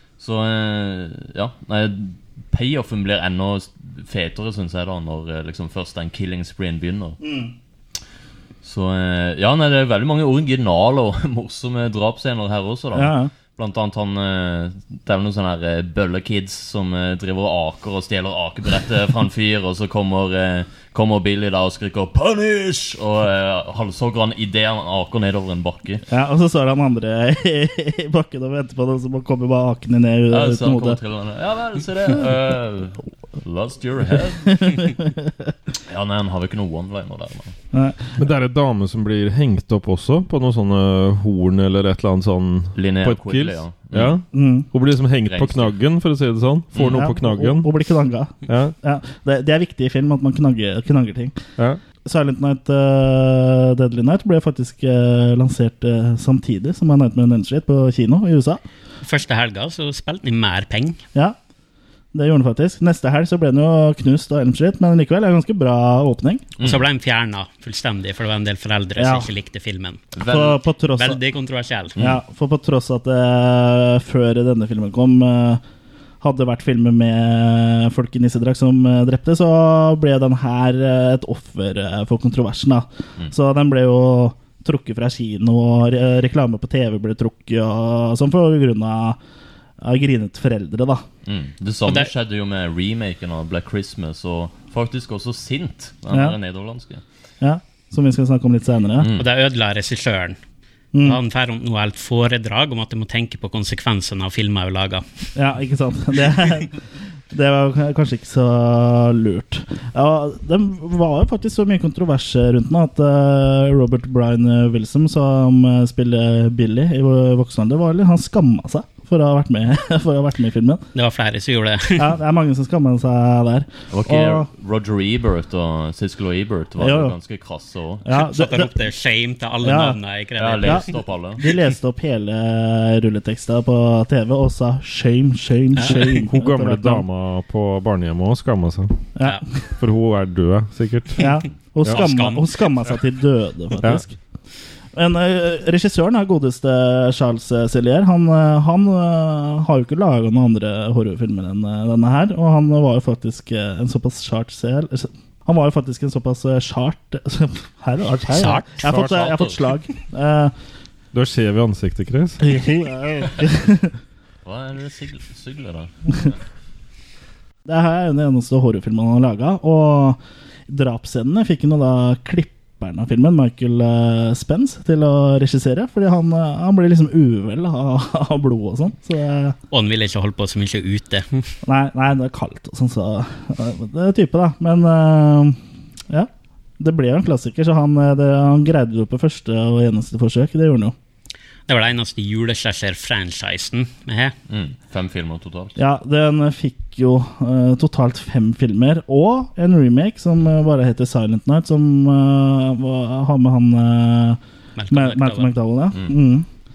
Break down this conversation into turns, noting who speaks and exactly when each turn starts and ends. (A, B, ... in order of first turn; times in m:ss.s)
0:00.2-0:07.2 A
0:07.2-0:07.5 B
0:08.6-0:26.0 A
0:12.9-0:13.3 B
0:26.1-0:31.0 B
0:30.3-0:35.0 A
0:34.5-0:35.3 B
0:35.9-0:37.6 A
0:37.7-0:38.1 B
0:38.2-0:47.7 C
0:42.7-0:44.2 A
0:44.3-0:44.7 B
0:45.2-0:45.8 A
0:46.7-0:47.0 A
0:46.8-0:51.4 B
0:48.4-0:48.7 C
0:52.0-0:58.6 B
0:59.0-1:01.0 D
1:02.1-1:06.4 B
1:06.6-1:06.8 A
1:06.6-1:10.1 D
1:09.0-1:09.3 B
1:10.1-1:10.6 A
1:10.2-1:11.2 B
1:10.9-1:12.0 D
1:12.0-1:15.6 B
1:16.2-1:29.2 B
1:29.8-1:31.0 B
1:31.2-1:37.0 A
1:31.8-1:32.1 D
1:36.1-1:36.4 B
1:37.4-1:39.1 B
1:39.0-1:39.2 A
1:39.1-1:40.4 D
1:41.0-1:45.0 D
1:45.3-1:46.7 B
1:47.3-2:00.8 B
2:00.9-2:02.1 D
2:02.0-2:04.5 B
2:03.9-2:08.0 A
2:06.8-2:07.1 B
2:08.0-2:08.7 B
2:08.1-2:10.9 D
2:09.6-2:10.0 B
2:10.4-2:11.5 A
2:10.6-2:17.0 B
2:15.8-2:16.0 D
2:16.0-2:19.0 C
2:19.2-2:19.4 B
2:19.8-2:21.2 C
2:21.2-2:24.1 B
2:21.9-2:22.5 D
2:25.0-2:40.5 B
2:38.3-2:39.0 D
2:38.8-2:39.6 A
2:41.1-2:42.4 C
2:42.4-2:43.9 B
2:44.4-2:46.3 A
2:47.6-2:59.6 B
2:59.7-3:01.5 D
3:01.6-3:05.6 B
3:06.8-3:10.9 B
3:11.7-3:14.3 D
3:14.5-3:15.8 A
3:15.8-3:24.4 B
3:24.8-3:25.5 D
3:24.9-3:26.4 B